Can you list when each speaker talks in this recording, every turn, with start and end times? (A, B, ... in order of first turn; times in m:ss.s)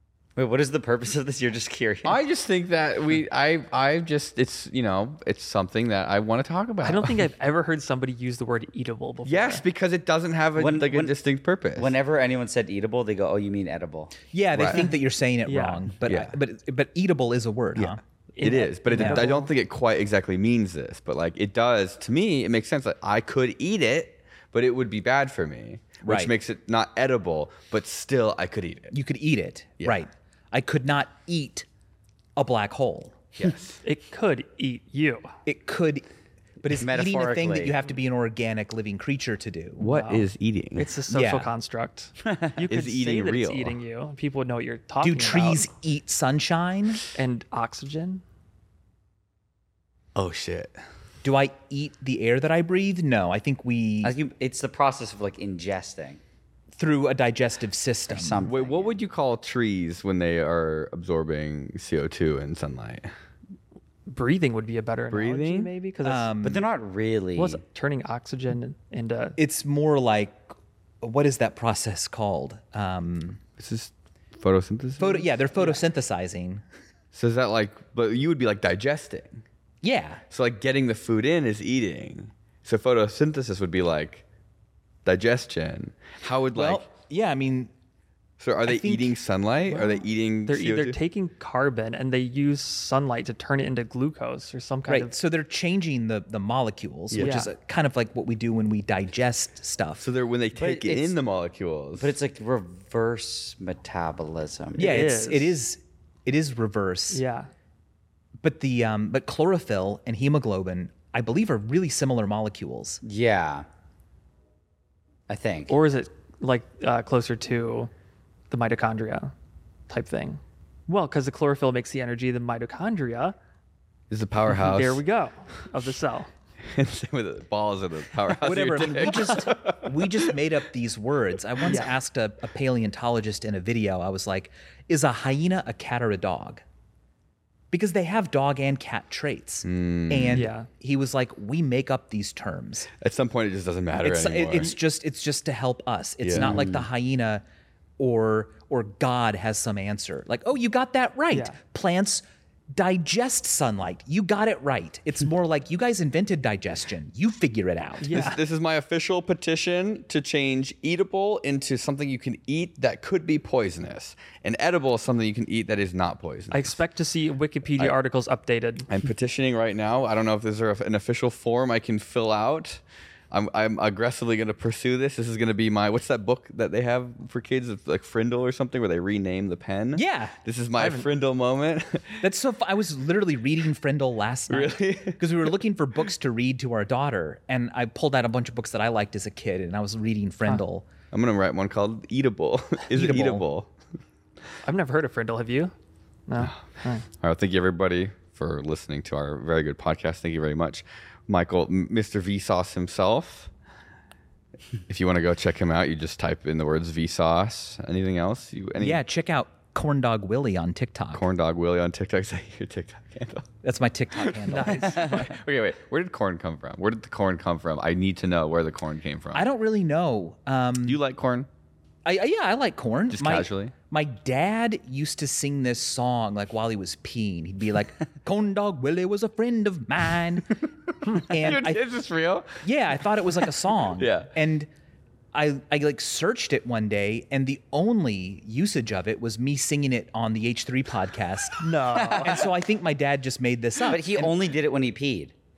0:00.4-0:02.2 A
0:02.0-0:07.3 B
0:06.8-0:09.6 C
0:09.2-0:12.0 B
0:10.6-0:11.1 A
0:11.8-0:14.2 A
0:14.3-0:18.0 D
0:14.5-0:14.8 B
0:15.4-0:15.8 C
0:16.0-0:16.3 B
0:17.8-0:28.9 B
0:18.3-0:19.5 C
0:18.9-0:19.3 D
0:26.0-0:26.3 D
0:28.9-0:31.6 D
0:32.4-0:33.2 D
0:33.4-0:33.8 B
0:33.8-0:35.3 C
0:35.4-0:36.1 D
0:36.6-0:39.9 D
0:36.7-0:37.8 A
0:39.8-0:40.9 B
0:39.9-0:45.7 C
0:41.1-0:41.5 D
0:42.6-0:43.8 B
0:45.0-0:47.0 D
0:47.1-0:48.2 C
0:50.1-0:50.8 B
0:51.2-0:54.1 D
0:54.0-0:56.2 A
0:56.8-0:58.4 D
0:58.1-0:59.0 A
0:58.4-1:03.1 B
1:04.1-1:06.3 C
1:05.1-1:05.7 B
1:06.0-1:06.6 D
1:06.4-1:07.6 A
1:07.4-1:09.4 C
1:09.4-1:10.5 D
1:11.0-1:13.4 D
1:13.6-1:15.7 B
1:15.0-1:16.6 D
1:17.1-1:19.4 B
1:19.8-1:20.2 D
1:20.3-1:24.2 B
1:25.0-1:26.8 B
1:26.5-1:27.7 D
1:28.4-1:31.0 B
1:28.6-1:29.1 D
1:29.7-1:35.1 C
1:34.9-1:40.1 D
1:37.1-1:37.4 B
1:37.2-1:37.5 C
1:40.0-1:42.1 B
1:40.6-1:41.2 A
1:42.0-1:45.0 A
1:44.8-1:47.2 D
1:44.8-1:45.6 C
1:47.1-1:47.5 C
1:48.4-1:53.0 D
1:53.0-1:53.6 A
1:55.3-1:55.7 A
1:55.7-1:57.9 C
1:58.5-1:59.3 C
1:59.9-2:03.3 C
2:04.1-2:05.0 B
2:04.6-2:06.3 C
2:06.6-2:10.4 B
2:08.4-2:16.6 D
2:17.7-2:22.9 D
2:19.6-2:20.5 B
2:20.3-2:20.7 C
2:23.0-2:24.8 B
2:24.0-2:27.4 D
2:26.2-2:26.8 B
2:28.0-2:38.3 D
2:31.3-2:31.6 C
2:38.0-2:38.4 C
2:38.1-2:46.8 B
2:46.5-2:48.9 C
2:48.9-3:02.3 B
2:59.9-3:00.4 D
3:00.8-3:01.0 C
3:02.2-3:10.9 D
3:04.5-3:05.5 B
3:11.1-3:13.7 B
3:12.9-3:13.4 D
3:14.6-3:15.7 C
3:16.3-3:17.0 C
3:16.4-3:23.5 B
3:24.9-3:29.0 B
3:28.8-3:31.2 D
3:31.1-3:33.5 B
3:33.6-3:35.2 D
3:34.2-3:39.4 B
3:34.5-3:35.3 C
3:39.3-3:41.0 D
3:40.8-3:41.5 B
3:42.0-3:51.8 D
3:43.1-3:43.7 B
3:51.0-3:52.6 B
3:52.6-3:54.7 D
3:53.2-3:54.3 B
3:55.3-4:04.4 D
4:01.6-4:02.5 C
4:01.9-4:02.4 A
4:03.8-4:05.3 A